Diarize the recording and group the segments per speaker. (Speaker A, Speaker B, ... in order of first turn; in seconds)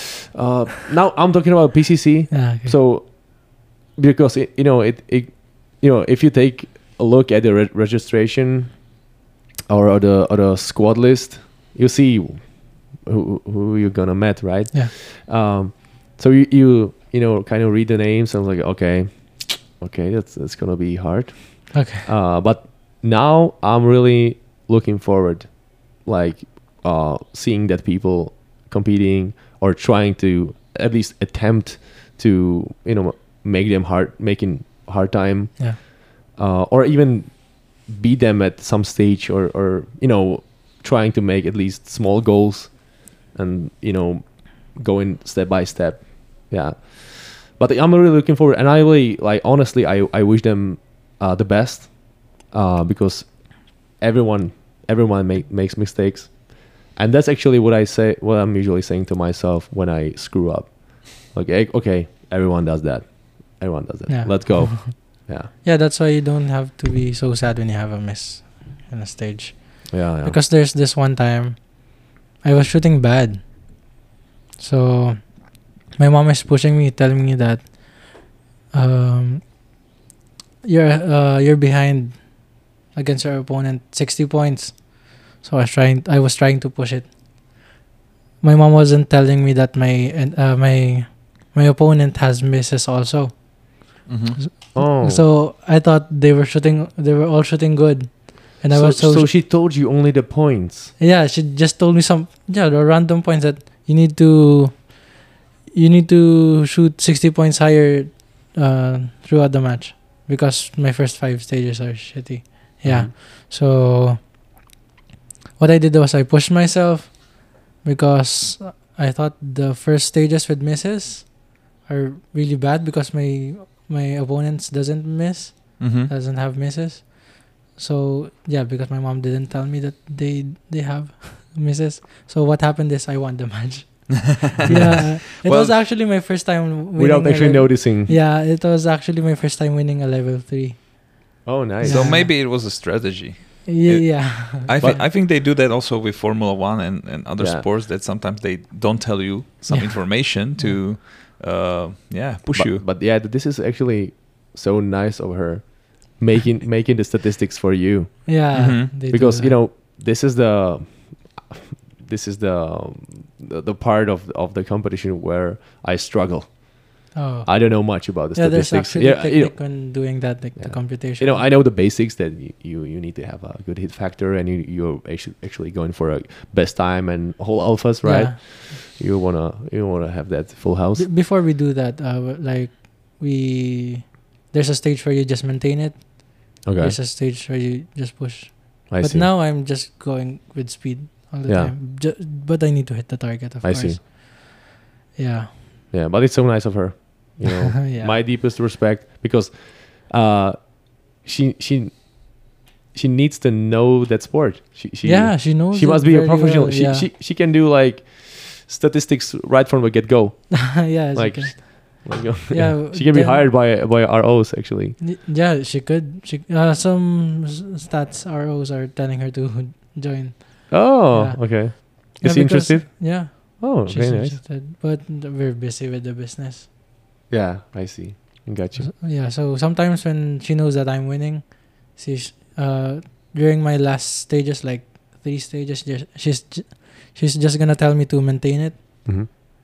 Speaker A: 0.3-8.9, 9.7-65.5, 69.9-70.4, 94.8-95.2, 98.7-100.9, 112.8-113.1, 137.0-138.2, 141.4-142.3, 144.8-145.0, 147.4-147.7, 152.5-181.1, 186.6-187.0, 188.9-189.3, 191.5-191.8, 193.6-194.0, 195.9-215.0, 220.7-224.4, 227.3-228.9
Speaker B: 2.3-2.7, 21.7-22.1, 64.1-73.9, 74.6-79.6, 80.6-87.1, 88.4-99.3, 101.0-105.2, 105.7-114.2, 115.6-142.3, 143.7-145.1, 149.7-150.8, 158.3-159.6, 167.2-171.4, 178.0-178.4, 181.0-194.6, 195.2-195.6, 197.5-198.2, 205.0-207.1, 210.5-213.5, 215.0-226.7, 228.8-239.1
Speaker C: 94.1-94.5, 125.8-126.1, 134.3-135.8, 141.8-152.8, 158.5-158.9